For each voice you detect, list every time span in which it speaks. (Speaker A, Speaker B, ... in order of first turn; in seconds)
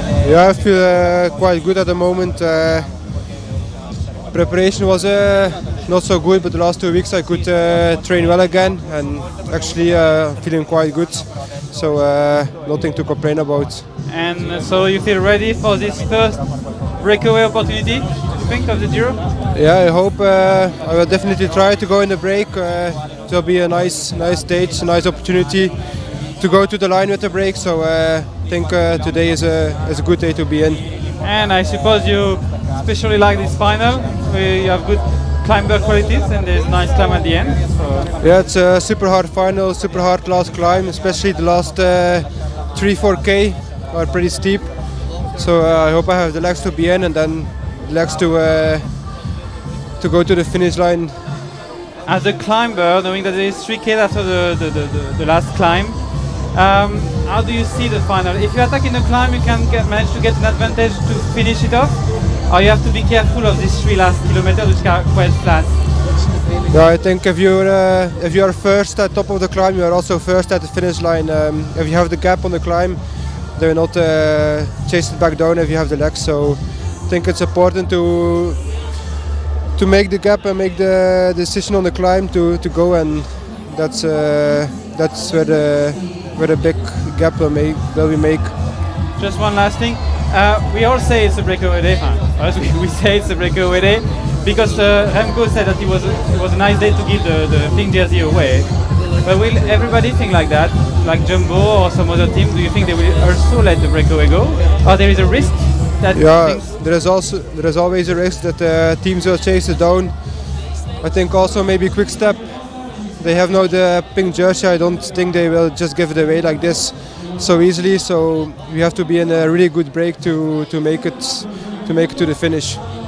Speaker A: 0.2-3.2, 4.3-13.8, 19.5-30.8, 38.2-49.4, 50.0-51.2, 66.7-78.8, 79.7-88.5, 106.1-122.8
Speaker B: 14.1-19.2, 31.2-38.1, 52.0-66.2, 89.2-106.7